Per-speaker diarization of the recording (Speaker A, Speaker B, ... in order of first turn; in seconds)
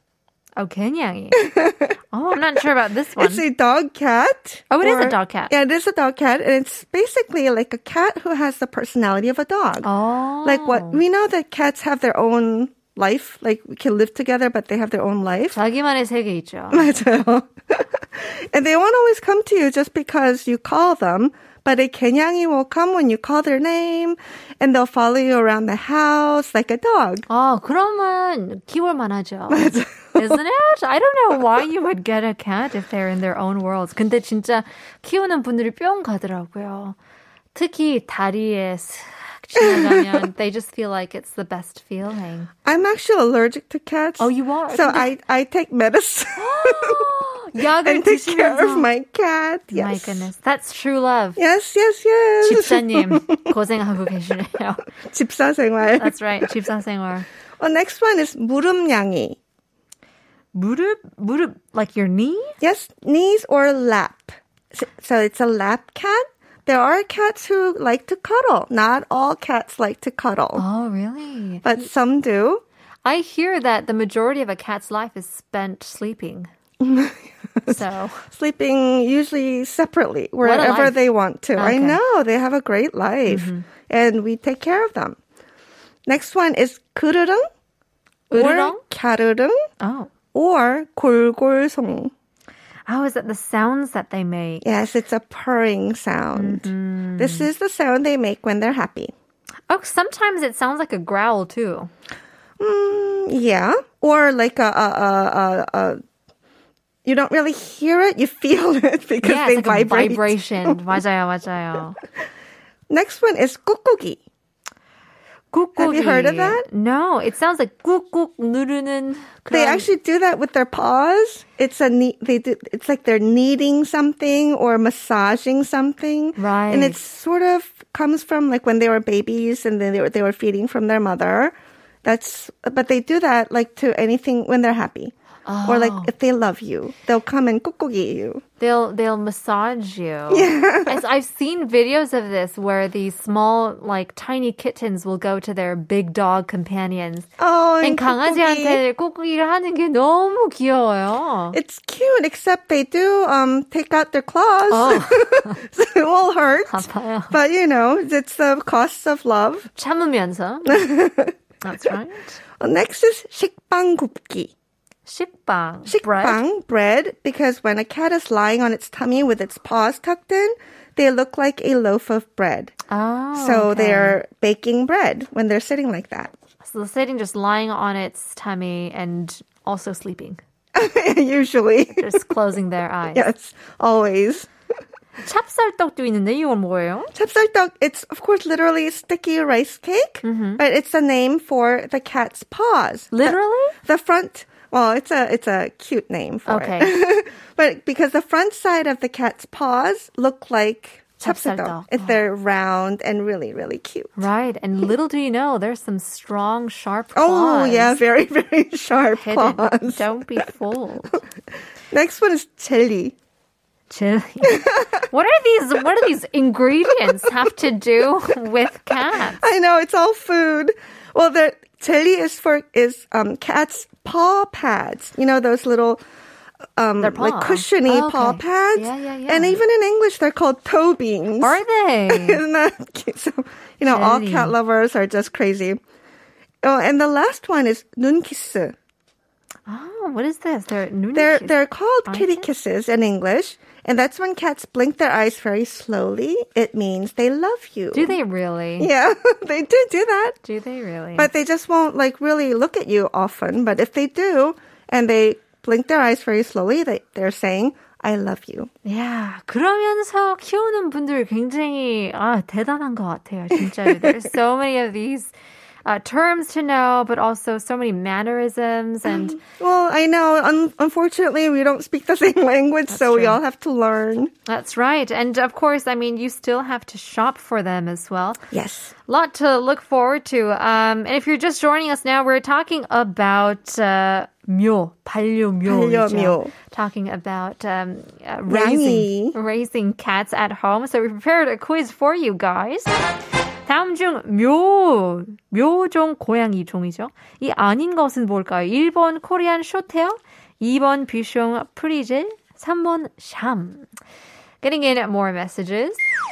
Speaker A: 0.6-1.4, 2.1-3.4, 4.7-5.5, 9.8-11.0, 15.5-16.9, 27.3-37.0, 37.5-42.5, 44.2-45.1, 46.4-48.9, 49.7-51.4, 52.4-54.9, 56.0-57.3, 60.5-62.5, 70.5-71.7, 73.0-76.5, 77.7-78.3, 80.4-81.0, 81.5-82.0, 83.3-83.7, 88.3-88.8, 89.8-90.1, 92.9-94.6, 96.3-97.5, 99.7-101.9, 109.2-112.0, 115.5-119.9, 126.4-127.0, 135.4-136.1, 138.6-147.3, 147.8-151.6, 154.7-155.6, 156.7-157.3, 159.7-160.9, 161.6-162.4, 165.1-166.4, 172.9-174.2, 176.6-180.4, 181.9-183.2, 185.2-187.1, 190.2-190.6, 193.1-193.7, 196.5-196.9, 201.2-202.2, 204.2-208.0, 209.2-211.2, 213.9-219.4, 227.0-229.6, 231.4-232.4, 233.8-234.5, 239.7-241.5, 242.1-242.5, 247.9-248.9, 250.4-251.3, 258.8-265.3, 265.8-269.4, 272.9-273.4, 274.5-278.4, 279.1-292.9, 293.7-303.9, 304.6-306.0
Speaker B: 1.4-1.9, 3.2-9.9, 10.4-15.6, 16.7-27.2, 29.5-30.4, 39.6-40.3, 42.6-47.0, 47.8-50.3, 51.4-53.5, 55.0-56.5, 57.6-59.4, 62.6-70.6, 71.6-72.6, 76.8-77.8, 78.3-85.2, 86.0-87.4, 88.3-89.6, 90.3-92.1, 94.6-99.1, 102.6-106.0, 107.0-110.8, 112.9-114.2, 115.8-116.7, 119.5-135.1, 135.7-138.4, 140.3-141.0, 147.4-148.8, 151.5-159.7, 160.7-161.9, 162.6-164.5, 165.8-172.7, 173.3-176.3, 180.7-182.3, 183.1-184.5, 187.1-204.1, 207.1-210.0, 211.9-213.1, 214.4-214.9, 219.4-226.0, 226.8-235.8, 236.6-238.7, 241.1-248.2, 248.8-250.4, 251.2-258.7, 263.8-264.2, 269.1-274.3, 278.5-278.9, 285.6-286.5, 288.5-289.4